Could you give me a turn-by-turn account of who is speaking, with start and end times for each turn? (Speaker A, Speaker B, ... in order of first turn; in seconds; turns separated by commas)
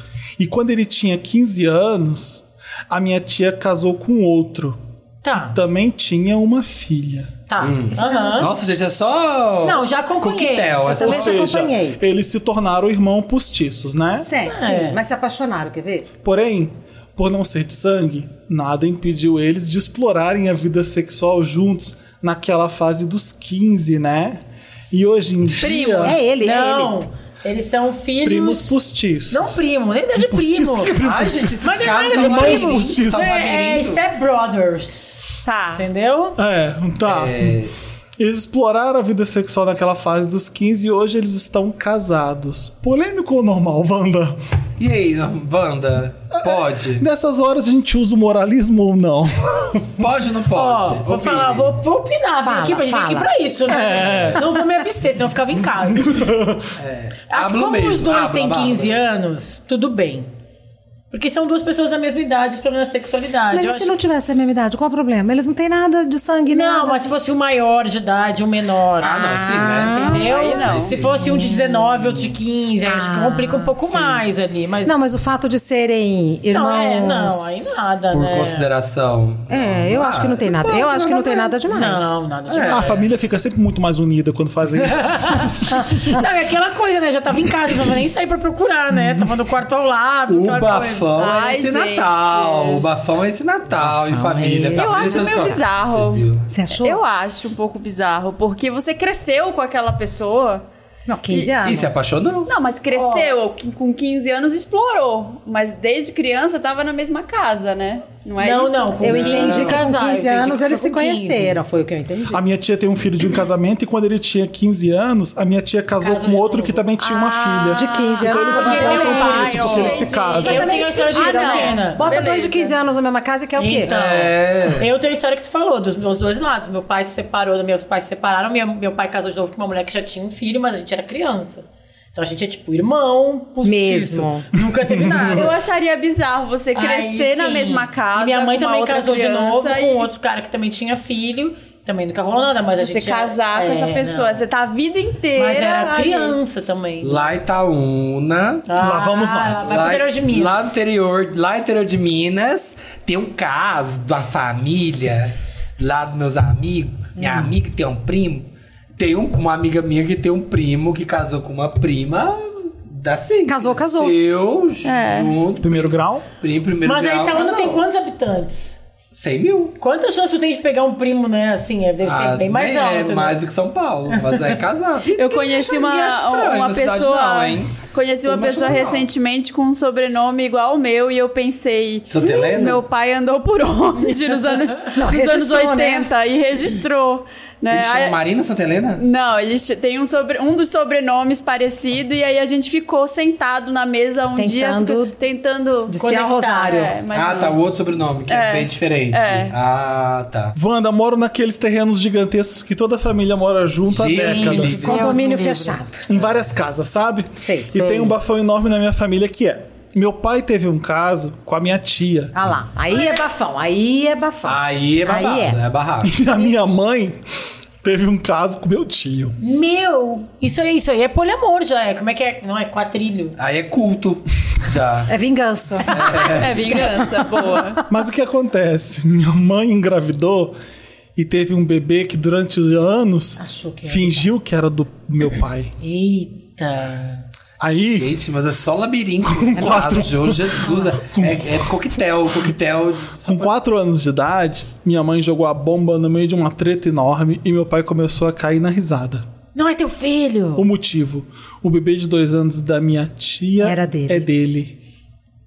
Speaker A: 0.4-4.8, Speaker B: 5.2-5.6, Speaker A: 5.3-7.3, Speaker B: 7.5-8.5, Speaker C: 7.6-11.4, Speaker D: 8.1-8.4, Speaker B: 9.6-11.0, Speaker D: 10.9-12.0, Speaker A: 10.9-14.3, Speaker D: 14.2-16.1, Speaker B: 14.5-15.0, Speaker A: 16.2-26.2, Speaker E: 25.6-26.2, Speaker D: 26.0-27.0, Speaker B: 26.4-28.8, Speaker A: 28.2-33.4, Speaker B: 29.3-30.9, Speaker C: 30.9-34.0, Speaker B: 31.6-36.4, Speaker E: 35.4-35.9, Speaker A: 36.4-37.6, Speaker C: 37.0-37.7, Speaker A: 38.2-44.4, Speaker C: 44.8-47.0, Speaker A: 46.3-50.0, Speaker C: 50.0-51.7, Speaker B: 50.5-56.3, Speaker D: 52.4-54.6, Speaker C: 53.9-54.4, Speaker A: 55.9-56.7, Speaker C: 56.8-59.0, Speaker B: 57.3-60.3, Speaker B: 61.1-63.9, Speaker D: 63.5-67.1, Speaker B: 66.5-75.0, Speaker C: 69.0-71.2, Speaker D: 69.2-70.4, Speaker E: 70.2-71.0, Speaker D: 71.1-72.3, Speaker D: 72.8-74.2, Speaker D: 74.8-77.9, Speaker B: 76.5-78.7, Speaker C: 78.1-81.2, Speaker D: 79.5-82.2, Speaker B: 81.7-83.0, Speaker C: 82.5-83.0, Speaker A: 82.7-86.2, Speaker B: 84.9-91.1, Speaker C: 90.3-96.5, Speaker E: 91.1-92.8, Speaker D: 93.8-95.6, Speaker E: 94.7-100.7, Speaker D: 96.5-97.0, Speaker D: 101.1-102.0, Speaker E: 101.3-101.6, Speaker C: 101.6-102.5, Speaker E: 102.5-109.7, Speaker B: 102.9-103.3, Speaker B: 108.4-111.6, Speaker D: 109.0-112.4, Speaker C: 109.1-109.8, Speaker A: 112.3-120.7, Speaker B: 116.0-116.9, Speaker E: 117.0-122.8, Speaker D: 117.7-124.0, Speaker B: 118.2-122.3, Speaker B: 123.6-135.6, Speaker C: 123.9-124.9, Speaker D: 133.6-134.5, Speaker A: 134.8-135.5, Speaker E: 135.2-140.1, Speaker B: 136.8-144.4, Speaker E: 142.8-146.4, Speaker B: 145.4-147.3, Speaker C: 147.0-148.7, Speaker B: 148.7-150.5, Speaker A: 148.8-149.9, Speaker C: 149.5-167.8, Speaker B: 157.2-157.5, Speaker D: 163.5-164.2, Speaker E: 164.8-165.4, Speaker A: 165.6-166.3, Speaker B: 166.8-168.8, Speaker C: 169.1-169.8, Speaker B: 169.8-173.4, Speaker C: 172.0-179.1, Speaker B: 174.1-174.6, Speaker E: 175.1-188.2, Speaker C: 182.1-182.8, Speaker B: 184.2-184.8, Speaker D: 184.9-186.1, Speaker C: 187.7-189.0, Speaker E: 189.0-197.6, Speaker D: 194.4-195.2, Speaker D: 195.9-197.0, Speaker B: 196.0-196.8, Speaker C: 197.1-200.6, Speaker E: 198.3-199.6, Speaker A: 200.6-205.0, Speaker C: 203.9-205.2, Speaker B: 204.1-205.8, Speaker D: 204.6-206.1, Speaker A: 206.1-212.3, Speaker D: 207.4-207.8, Speaker B: 207.8-208.1, Speaker D: 212.3-215.6, Speaker C: 214.4-216.1, Speaker A: 216.0-217.2, Speaker A: 217.8-219.4, Speaker B: 219.4-223.4, Speaker C: 223.4-225.1, Speaker D: 225.1-227.8, Speaker B: 225.9-226.2, Speaker C: 225.9-226.8, Speaker E: 226.3-227.8, Speaker A: 227.9-230.6, Speaker A: 231.2-235.7, Speaker D: 233.4-234.3, Speaker B: 235.8-237.3, Speaker A: 237.6-238.1, Speaker C: 237.6-243.5, Speaker A: 239.2-241.5, Speaker A: 243.2-249.3, Speaker B: 249.6-250.7, Speaker A: 250.6-254.8, Speaker D: 253.6-254.3